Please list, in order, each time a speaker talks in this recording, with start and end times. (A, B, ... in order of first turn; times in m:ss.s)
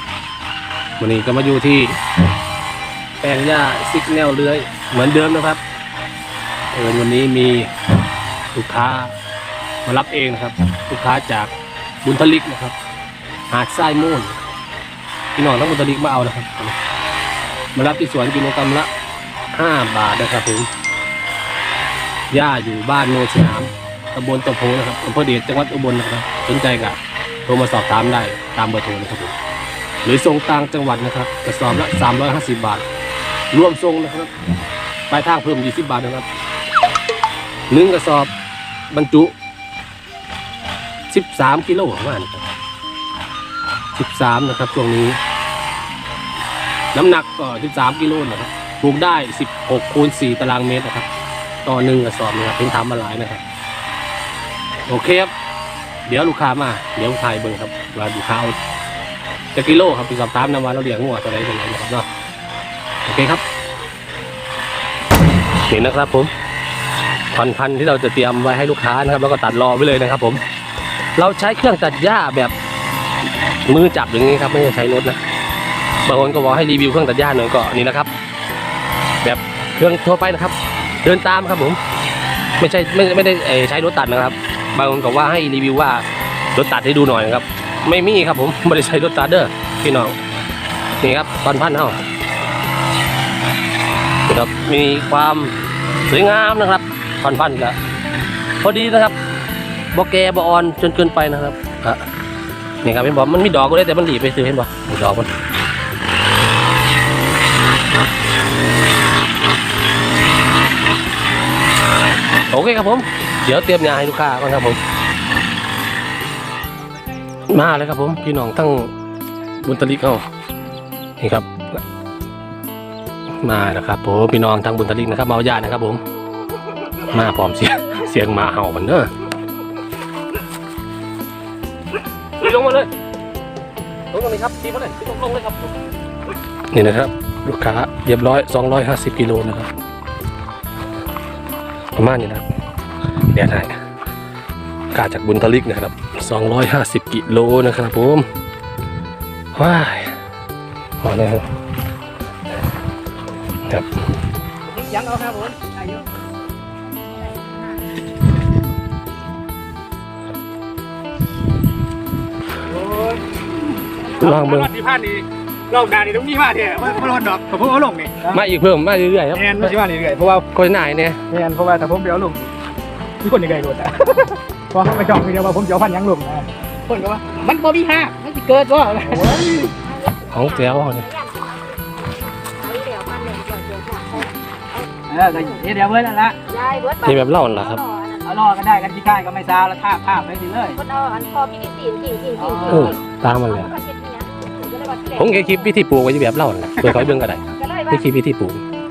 0:01.0-0:02.0 A
0:03.2-0:05.6 A
0:06.7-0:07.7 A
0:08.5-0:09.1 A
0:09.8-0:12.8 A
0:13.5-0:14.4 A
0:15.4-0:16.8 A
0:17.8-0:18.9 A
0:19.5-0:20.7 A
0:22.3-0:29.4 A
0:30.0-0:32.8 A
0:33.5-0:34.3 A
0:35.1-0:36.3 A
0:37.7-0:38.3 A
0:38.9-0:39.3 A
0:41.1-0:42.5 A
0:44.0-0:45.2 A
0:46.9-0:51.1 A
0:51.6-0:53.4 A
0:54.9-0:55.3 A
0:56.0-0:58.6 A
0:59.5-1:02.1 A
1:03.0-1:03.4 A
1:05.7-1:06.3 A
1:07.3-1:10.4 A
1:11.2-1:12.5 A
1:13.7-1:15.2 A
1:16.0-1:18.1 A
1:19.2-1:21.8 A
1:22.6-1:30.2 A
1:31.0-1:32.0 A
1:34.3-1:37.8 A
1:38.6-1:39.2 A
1:39.9-1:42.0 A
1:42.8-1:45.3 A
1:52.5-1:54.8 A
1:57.5-1:58.9 A
1:59.6-2:00.3 A
2:01.2-2:01.8 A
2:03.4-2:06.0 A
2:07.0-2:09.1 A
2:12.4-2:12.9 A
2:14.1-2:15.7 A
2:16.7-2:19.7 A
2:22.0-2:22.5 A
2:23.2-2:23.8 A
2:24.9-2:28.3 A
2:29.5-2:30.2 A
2:31.0-2:31.5 A
2:34.7-2:36.0 B
2:42.7-2:43.2 B
2:44.2-2:44.8 A
2:44.3-2:48.4 B
2:48.3-2:49.8 A
2:49.4-2:50.5 B
2:50.5-2:51.2 A
2:51.3-2:52.5 B
2:53.2-2:59.8 B
2:59.8-3:05.6 C
3:00.3-3:01.1 A
3:05.1-3:06.4 B
3:06.4-3:08.4 C
3:07.0-3:07.8 A
3:08.2-3:10.8 B
3:10.8-3:13.0 C
3:12.4-3:13.0 B
3:12.7-3:13.8 A
3:13.5-3:15.7 C
3:15.2-3:18.6 A
3:17.4-3:18.0 C